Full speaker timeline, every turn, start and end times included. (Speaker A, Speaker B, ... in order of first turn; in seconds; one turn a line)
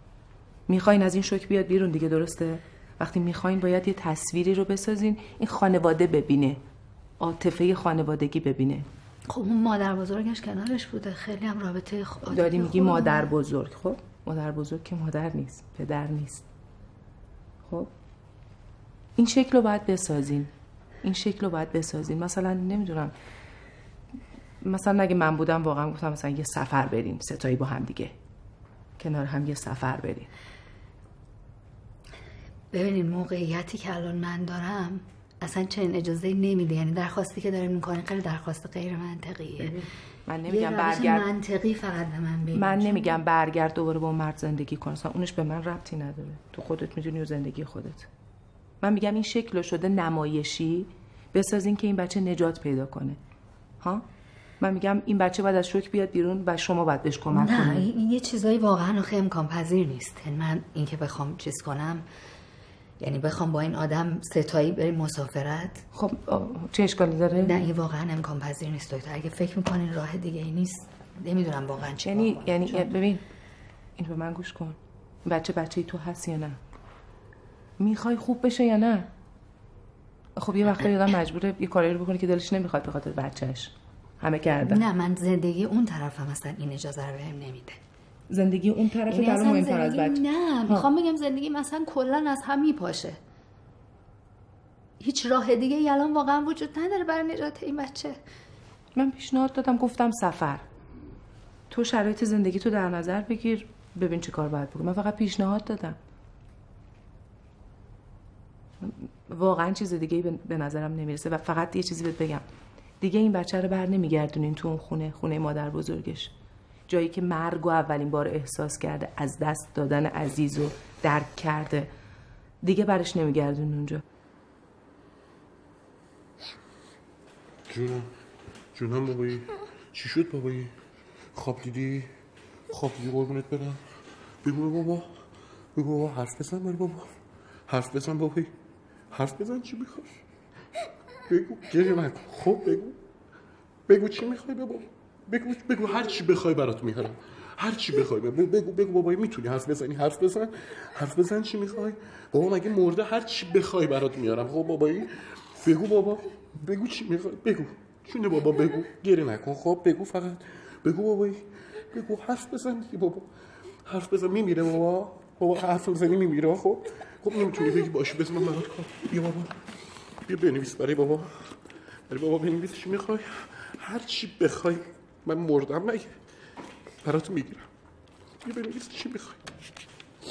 Speaker A: 0.7-6.6
Speaker A: 7.2-8.9
Speaker B: 9.3-13.3
Speaker A: 12.3-16.4
Speaker A: 17.6-17.9
Speaker A: 19.2-20.5
Speaker A: 21.0-23.1
Speaker A: 24.6-28.1
Speaker A: 29.0-30.3
Speaker B: 32.7-39.9
Speaker A: 39.6-41.3
Speaker B: 40.5-43.2
Speaker A: 42.5-48.1
Speaker A: 48.8-53.2
Speaker A: 54.6-57.9
Speaker B: 57.3-62.0
Speaker B: 63.0-65.8
Speaker A: 65.9-67.5
Speaker B: 67.4-72.9
Speaker A: 72.0-73.2
Speaker A: 74.0-76.6
Speaker A: 77.8-79.1
Speaker A: 80.4-84.8
Speaker B: 84.6-87.8
Speaker A: 88.3-90.9
Speaker B: 89.1-93.2
Speaker B: 95.0-98.2
Speaker A: 99.0-100.7
Speaker A: 101.7-106.0
Speaker A: 108.8-112.5
Speaker A: 113.0-116.3
Speaker A: 116.9-121.9
Speaker A: 122.6-124.0
Speaker C: 127.7-128.1
Speaker C: 128.8-130.7
Speaker C: 131.3-132.1
Speaker C: 132.7-133.8
Speaker C: 134.4-135.1
Speaker C: 135.8-137.1
Speaker C: 137.7-138.5
Speaker C: 139.1-140.2
Speaker C: 141.3-143.0
Speaker C: 143.9-163.3
Speaker C: 163.8-169.6
Speaker C: 170.2-171.6
Speaker C: 172.1-176.2
Speaker C: 177.0-177.7
Speaker C: 178.4-179.4